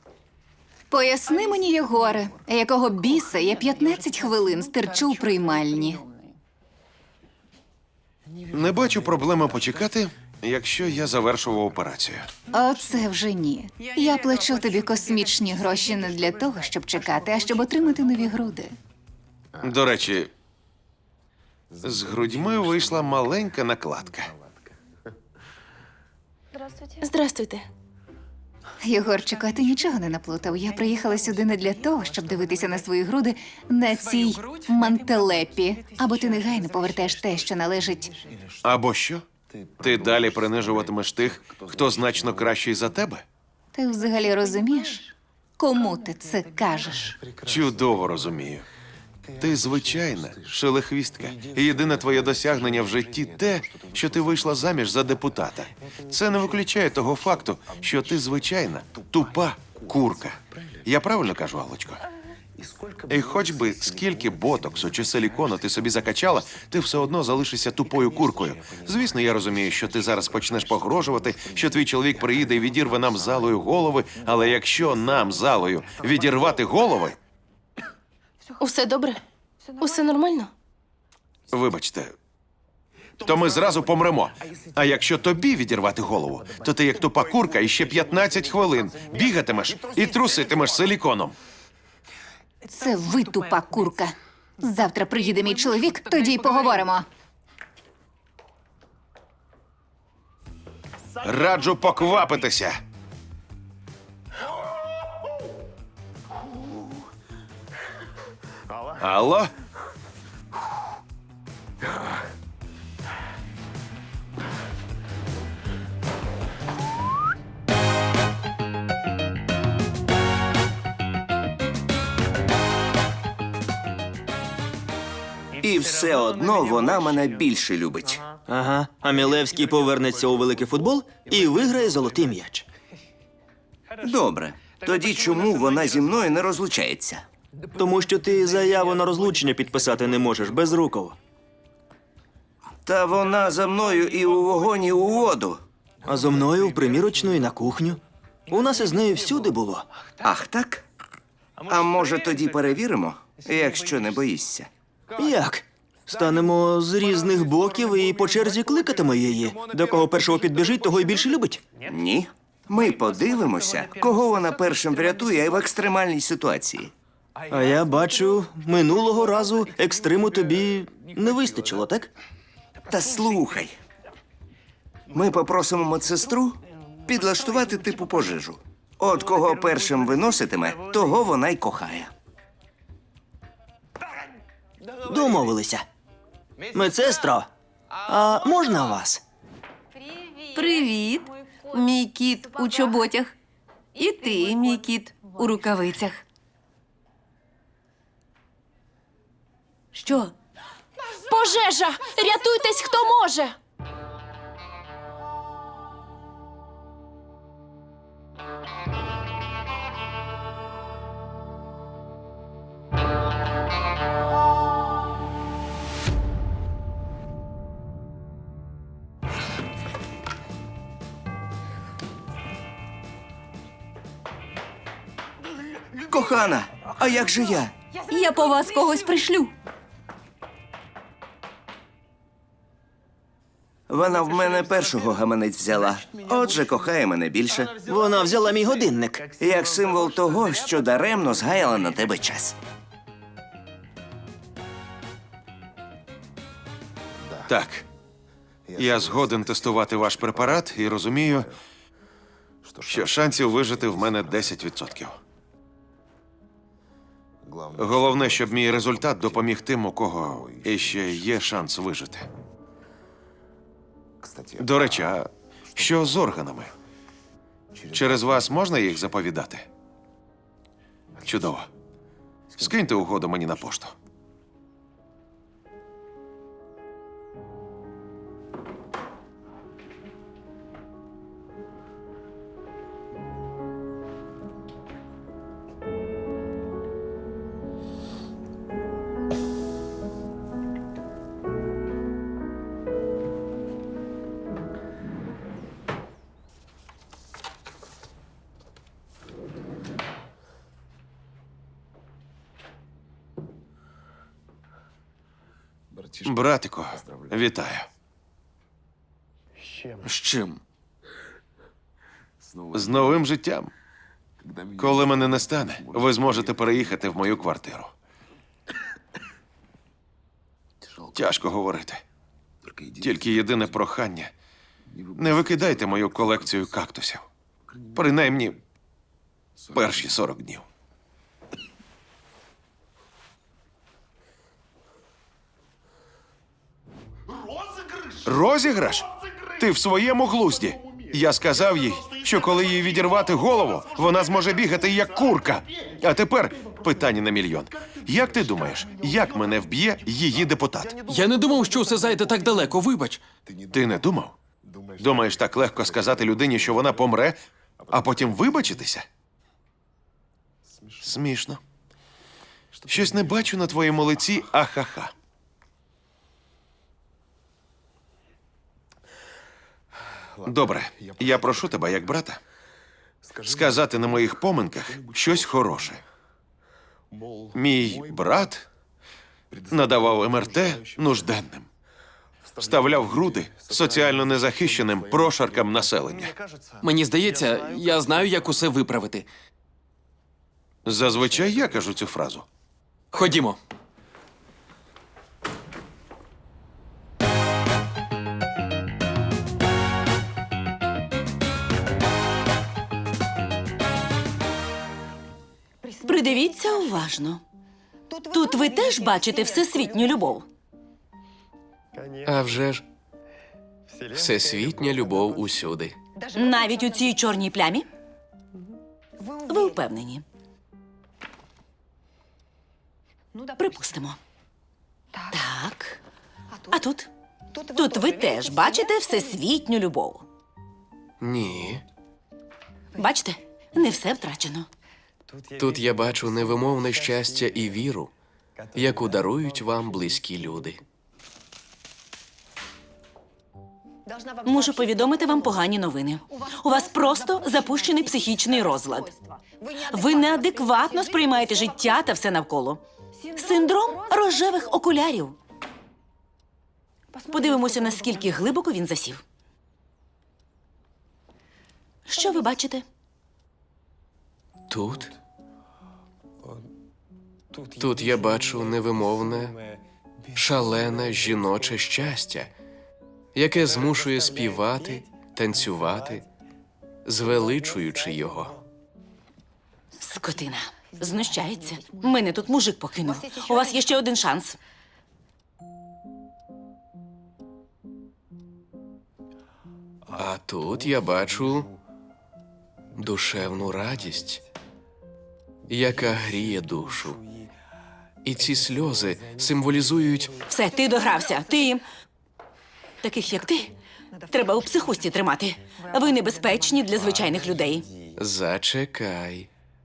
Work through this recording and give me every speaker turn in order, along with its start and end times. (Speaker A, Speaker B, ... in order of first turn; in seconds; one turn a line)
Speaker A: 0.9-6.0
Speaker B: 8.5-12.3
Speaker A: 12.5-18.7
Speaker B: 19.6-20.3
Speaker B: 21.8-24.3
Speaker C: 27.0-27.7
Speaker A: 28.8-38.1
Speaker B: 38.6-39.2
Speaker B: 39.8-43.2
Speaker A: 43.7-47.2
Speaker B: 47.4-48.6
Speaker B: 49.4-62.0
Speaker B: 63.1-77.2
Speaker C: 78.6-79.2
Speaker C: 79.8-80.5
Speaker B: 81.5-82.1
Speaker B: 83.2-91.3
Speaker A: 92.7-97.0
Speaker B: 101.2-102.8
Speaker B: 109.0-109.5
Speaker D: 125.6-128.2
Speaker E: 128.5-132.6
Speaker D: 134.0-137.2
Speaker E: 137.8-141.2
Speaker D: 142.8-145.6
Speaker E: 146.1-149.8
Speaker D: 150.2-150.8
Speaker D: 151.7-154.7
Speaker E: 155.2-161.6
Speaker D: 161.8-166.9
Speaker E: 167.5-172.1
Speaker D: 172.9-173.7
Speaker D: 175.1-182.1
Speaker E: 185.0-185.8
Speaker E: 186.7-187.5
Speaker E: 188.1-189.2
Speaker F: 190.5-193.3
Speaker F: 193.9-196.2
Speaker F: 199.9-200.3
Speaker C: 201.3-203.5
Speaker D: 226.0-227.7
Speaker D: 233.9-237.8
Speaker E: 237.8-239.3
Speaker D: 239.3-242.5
Speaker B: 247.5-247.8
Speaker B: 248.8-251.5
Speaker B: 252.9-255.2
Speaker B: 257.7-262.3
Speaker B: 264.6-266.7
Speaker B: 267.9-269.7
Speaker B: 271.2-271.7
Speaker B: 272.6-273.9
Speaker B: 306.2-307.9
Speaker G: 310.0-310.6
Speaker B: 312.7-313.7
Speaker B: 314.8-317.9
Speaker B: 321.1-322.0
Speaker B: 323.0-324.3
Speaker B: 325.1-327.2
Speaker B: 327.9-328.6
Speaker B: 329.7-330.6
Speaker B: 338.2-350.9
Speaker G: 351.1-353.2
Speaker B: 353.7-354.4
Speaker B: 355.0-357.4
Speaker B: 357.9-359.1
Speaker B: 361.0-361.6
Speaker B: 362.9-365.1
Speaker B: 370.4-372.4
Speaker B: 373.4-376.0
Speaker B: 377.5-378.6
Speaker B: 379.7-381.7
Speaker B: 382.6-386.3
Speaker G: 386.8-389.3
Speaker B: 390.8-392.4
Speaker G: 393.1-393.6
Speaker F: 406.0-407.4
Speaker F: 408.3-410.4
Speaker H: 412.2-412.8
Speaker H: 414.1-415.9
Speaker F: 416.3-417.9
Speaker F: 419.5-420.2
Speaker F: 423.6-424.2
Speaker F: 425.3-426.0
Speaker F: 426.7-427.1
Speaker F: 427.7-430.2
Speaker H: 431.2-431.8
Speaker F: 432.9-434.7
Speaker H: 435.6-438.1
Speaker H: 438.7-440.8
Speaker F: 444.4-449.1
Speaker F: 449.8-452.8
Speaker F: 453.3-455.4
Speaker F: 457.3-459.2
Speaker F: 462.1-462.8
Speaker H: 464.7-465.1
Speaker H: 467.8-469.6
Speaker H: 470.3-472.5
Speaker H: 473.3-476.2
Speaker H: 477.0-478.6
Speaker F: 480.0-484.6
Speaker H: 490.1-491.7
Speaker H: 492.9-494.4
Speaker H: 495.7-497.2
Speaker H: 498.2-500.3
Speaker F: 500.5-501.8
Speaker F: 503.0-503.7
Speaker F: 504.3-507.9
Speaker H: 508.2-509.5